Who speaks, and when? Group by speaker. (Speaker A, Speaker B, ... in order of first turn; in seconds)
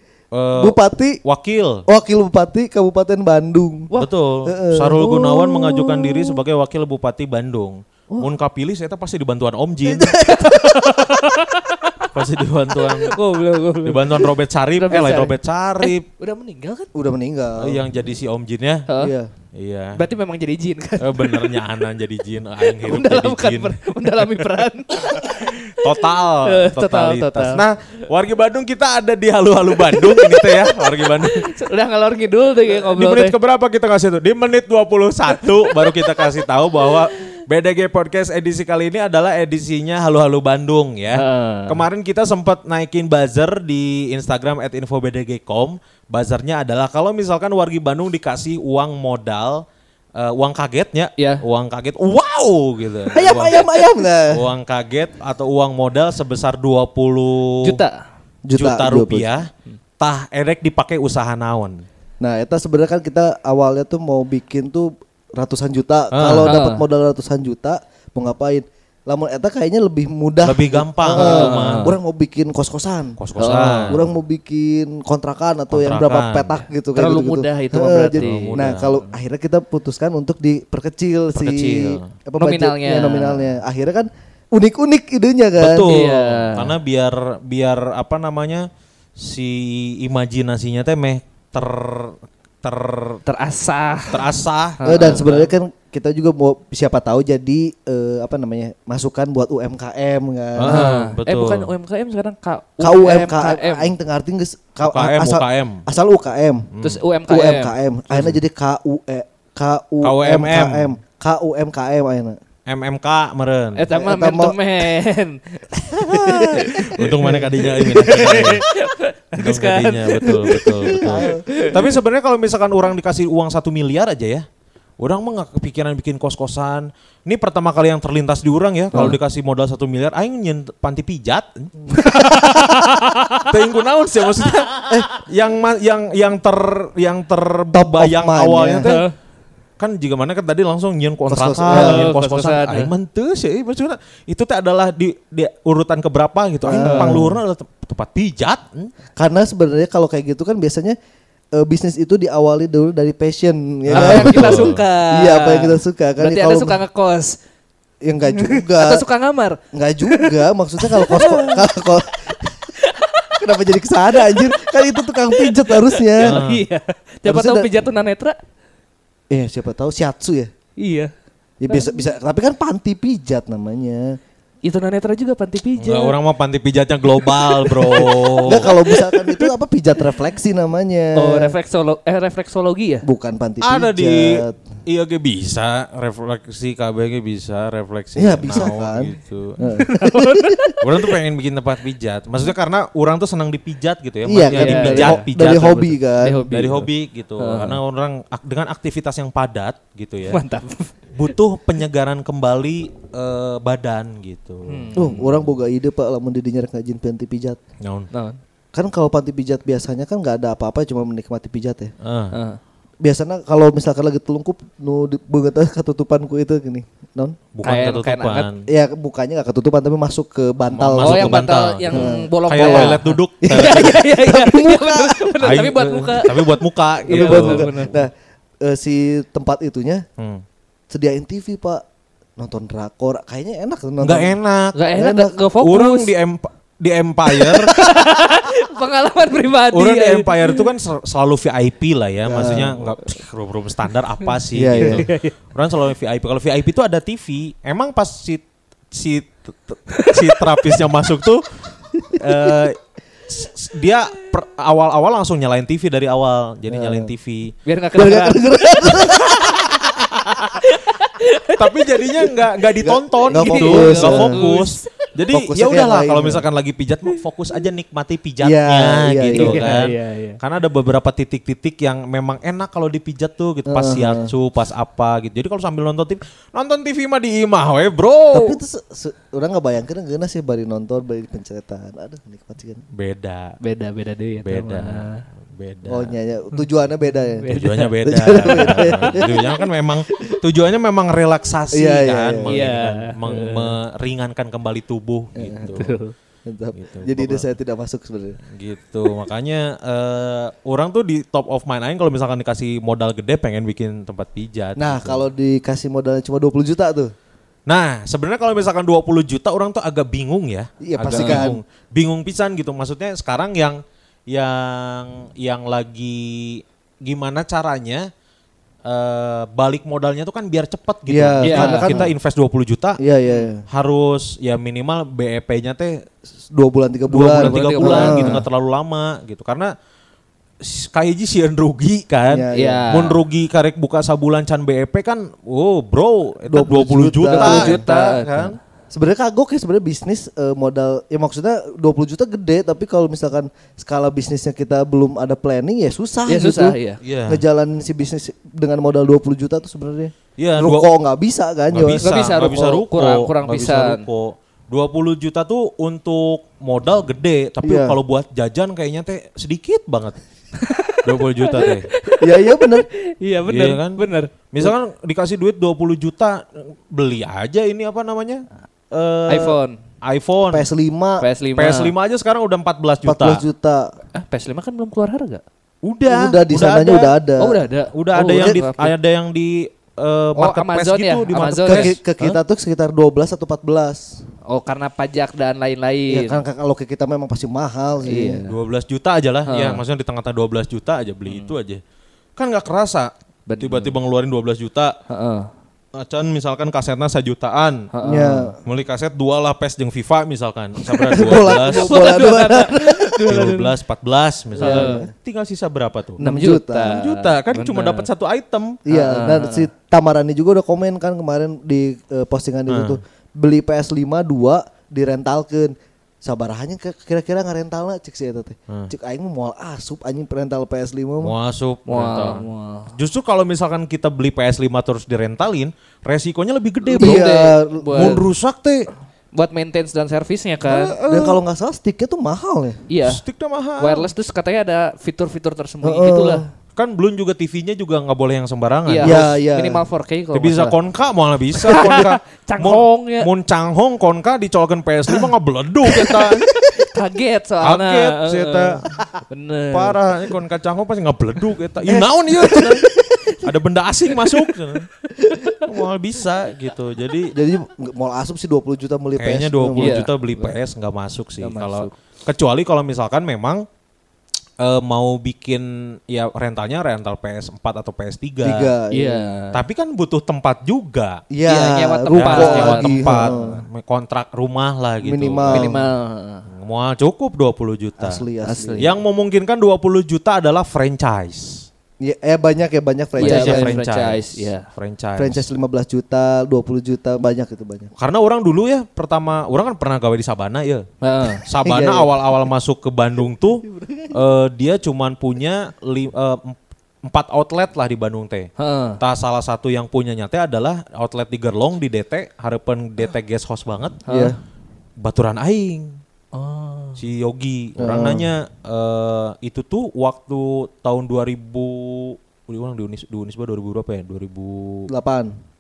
Speaker A: 0.3-1.9, 4.0-10.2, 12.1-13.2, 13.8-16.1, 17.6-18.9, 19.5-20.0, 21.0-31.5, 32.7-49.6, 50.2-57.8, 58.5-61.8, 66.1-66.6, 70.4-71.9, 73.2-74.1, 75.7-76.6, 78.2-78.9, 81.3-82.1, 85.6-93.2, 94.1-95.5, 100.6-101.7, 104.8-105.8, 106.7-107.0, 108.1-108.4, 110.0-110.9, 112.7-113.8, 116.4-118.7, 119.4-124.5, 125.0-139.1, 139.8-148.9, 153.9-154.8, 166.2-166.6, 175.8-178.7, 183.6-189.8, 190.8-196.0, 196.5-200.4, 201.1-205.4, 207.8-208.1, 212.0-212.4, 217.5-218.7, 220.7-224.1, 225.4-228.0, 230.2-230.4, 234.0-234.8, 235.6-238.0, 239.7-251.5, 252.2-252.8, 253.3-257.5, 260.1-260.6, 261.6-278.6, 282.9-283.6, 284.4-286.1, 287.5-296.0, 296.8-297.5, 298.5-305.3, 307.7-318.1, 318.9-323.0, 323.7-326.1, 327.1-329.7, 330.6-338.6, 347.0-347.4, 350.4-350.9, 351.7-360.2, 361.0-361.9, 363.5-370.7, 371.6-373.4, 375.8-377.1, 377.9-382.4, 388.5-391.8, 392.4-395.0, 395.9-397.9, 398.6-402.2, 403.2-406.2, 406.9-408.8, 412.7-413.0, 421.2-427.4, 427.9-428.9, 430.7-431.4, 433.1-434.1, 436.8-439.4, 440.3-446.5, 447.6-449.0, 449.7-454.9, 455.5-457.4, 459.2-463.6, 464.6-468.7, 469.5-471.2, 472.1-475.7, 476.5-478.2, 478.8-481.7, 483.2-485.4, 488.0-490.9, 491.4-504.0, 505.0-506.0, 507.0-514.9
Speaker B: 0.6-1.2, 1.9-3.9, 4.5-6.0, 9.9-10.9, 16.9-17.8, 19.0-19.3, 53.1-54.5, 58.5-59.3, 62.2-73.2, 73.9-86.0, 94.8-100.9, 102.8-106.7, 107.3-112.4, 113.9-114.6, 115.9-117.5, 120.9-121.4, 137.7-138.9, 141.3-142.1, 146.6-147.4, 149.2-151.0, 151.6-156.8, 158.0-159.0, 159.7-162.7, 163.4-166.4, 167.2-167.7, 169.3-170.5, 171.6-174.2, 178.4-181.6, 183.1-184.6, 188.2-190.8, 194.3-196.4, 205.0-207.6, 208.7-211.9, 213.0-217.4, 218.7-225.3, 227.1-230.1, 230.9-231.8, 232.4-234.4, 234.9-235.3, 242.2-242.9, 244.5-245.1, 252.0-252.6, 256.7-257.1, 258.0-259.9, 262.8-264.4, 265.3-266.4, 268.4-269.8, 273.7-274.3, 278.3-282.8, 285.9-287.5, 288.0-289.6, 291.7-292.6, 295.4-295.8, 296.4-298.4, 304.8-307.1, 310.8-311.6, 321.1-322.1, 323.0-323.6, 326.5-328.4, 332.3-332.9, 336.5-337.8, 338.9-352.1, 357.6-358.0, 362.2-362.9, 370.5-371.2, 373.0-373.9, 376.1-377.6, 378.3-378.6, 381.7-384.2, 386.1-388.4, 398.0-398.6, 401.1-403.2, 404.6-405.1, 406.2-407.0, 408.9-421.4, 426.9-428.2, 431.0-432.8, 435.8-436.4, 439.0-439.8, 451.8-453.2, 457.3-460.0, 468.4-469.4, 471.3-473.6, 475.0-475.8, 478.0-478.9, 482.0-483.8, 485.2-487.9, 491.6-492.1, 493.8-494.1, 504.1-504.4, 507.8-508.3, 514.9-515.3
Speaker C: 10.2-12.1, 12.7-16.9, 18.9-19.1, 19.9-21.6, 22.6-27.6, 29.8-33.4, 35.4-36.3, 36.8-37.2, 41.1-41.8, 57.6-58.0, 66.5-66.8, 71.1-71.9, 73.4-74.0, 76.9-79.1, 82.4-83.6, 85.9-86.7, 93.2-94.3, 94.8-95.3, 100.7-103.9, 106.8-107.7, 113.8-121.8, 131.9-133.5, 138.8-139.1, 141.7-142.9, 146.8-147.2, 153.9-157.4, 158.3-161.7, 162.8-163.4, 164.1-168.4, 170.8-171.1, 174.6-176.2, 177.2-179.5, 181.2-183.1, 189.8-191.1, 194.5-195.3, 196.2-197.8, 200.3-200.9, 204.7-205.2, 208.1-208.4, 212.3-212.6, 217.6-218.5, 221.0-227.9, 234.7-236.1, 237.3-240.6, 244.8-245.3, 249.9-250.6, 257.6-259.6, 260.5-262.5, 263.3-264.9, 269.3-270.4, 283.6-285.2, 287.4-289.4, 292.5-293.7, 295.7-296.1, 311.1-311.5, 321.4-322.0, 327.2-328.4, 332.5-333.2, 337.3-338.6, 346.3-347.0, 352.0-354.1, 360.6-364.3, 369.3-369.8, 371.2-371.9, 374.1-375.4, 377.4-378.9, 380.4-381.9, 384.5-386.4, 388.0-388.6, 389.5-389.8, 391.3-391.5, 393.5-393.9, 395.1-395.5, 397.9-398.5, 400.9-403.7, 404.6-405.1, 406.2-408.1, 408.9-409.7, 421.9-422.9, 426.9-428.2, 429.4-431.0, 432.9-433.2, 433.8-436.5, 438.9-440.8, 441.6-443.3, 445.9-450.0, 455.2-455.6, 459.8-460.6, 461.4-461.9, 468.9-469.6, 471.4-473.6, 475.5-476.5, 478.4-478.9, 483.2-484.7, 491.0-491.4, 498.6-499.0, 504.1-504.3, 506.3-507.0